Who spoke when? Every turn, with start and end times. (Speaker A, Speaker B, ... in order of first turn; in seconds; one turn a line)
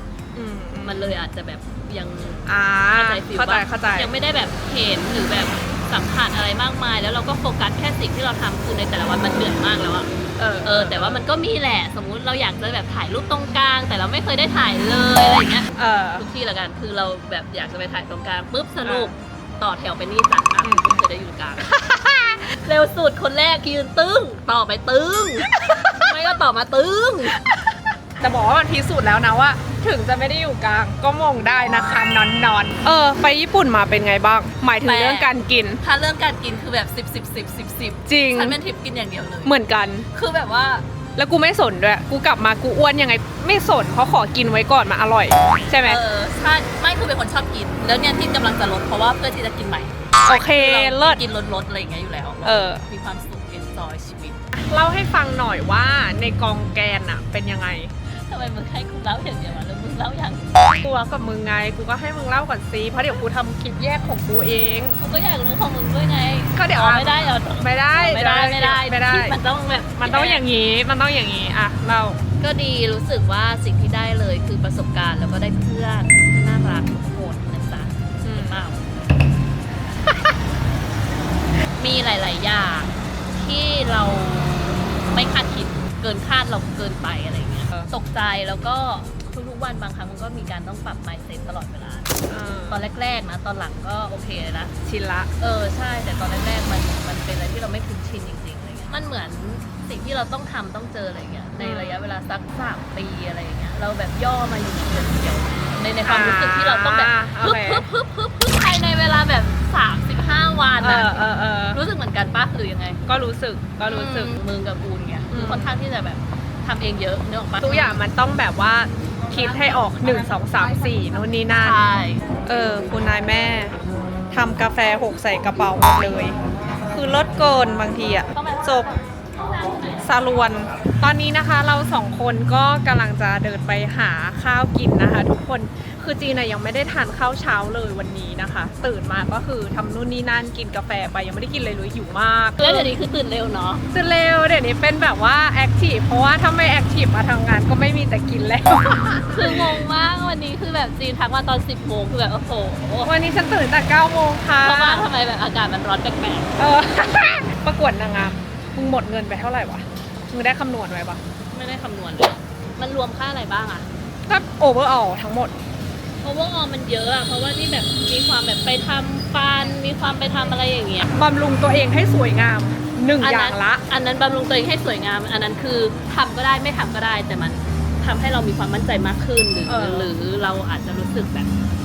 Speaker A: 0.3-1.2
Speaker B: 0.8-10.1
Speaker A: 2.4-4.1
Speaker A: 10.4-11.2
Speaker B: 10.6-21.7
Speaker A: 15.8-16.2
Speaker A: 18.8-19.1
Speaker A: 20.6-21.0
Speaker A: 21.6-22.6
Speaker B: 22.6-27.4
Speaker A: 25.4-26.1
Speaker A: 27.4-35.8
Speaker B: 34.8-39.6
Speaker A: 38.1-38.6
Speaker A: 39.4-40.1
Speaker B: 40.1-40.8
Speaker A: 41.1-46.0
Speaker B: 45.8-54.4
Speaker A: 50.2-51.2
Speaker A: 52.4-52.8
Speaker A: 54.5-57.9
Speaker B: 58.2-60.8
Speaker A: 60.8-65.0
Speaker B: 65.0-70.4
Speaker A: 66.5-69.3
Speaker A: 70.0-72.2
Speaker B: 72.4-78.9
Speaker A: 78.2-78.6
Speaker B: 81.8-92.1
Speaker A: 92.3-92.9
Speaker B: 92.7-94.7
Speaker A: 94.8-95.3
Speaker B: 95.4-113.0
Speaker A: 101.6-102.0
Speaker A: 106.0-107.8
Speaker A: 110.8-111.8
Speaker A: 113.1-114.4
Speaker B: 113.8-118.0
Speaker A: 115.3-115.7
Speaker A: 117.6-121.8
Speaker B: 119.3-122.2
Speaker A: 122.5-123.8
Speaker A: 124.3-126.4
Speaker A: 126.9-128.9
Speaker B: 128.3-130.1
Speaker A: 130.0-142.9
Speaker B: 142.6-143.8
Speaker A: 143.9-149.8
Speaker B: 149.3-153.1
Speaker A: 153.0-155.1
Speaker B: 154.6-156.5
Speaker A: 156.6-161.2
Speaker B: 161.5-163.9
Speaker A: 164.3-165.5
Speaker B: 166.2-171.1
Speaker A: 171.2-173.8
Speaker B: 173.2-181.5
Speaker A: 179.7-180.1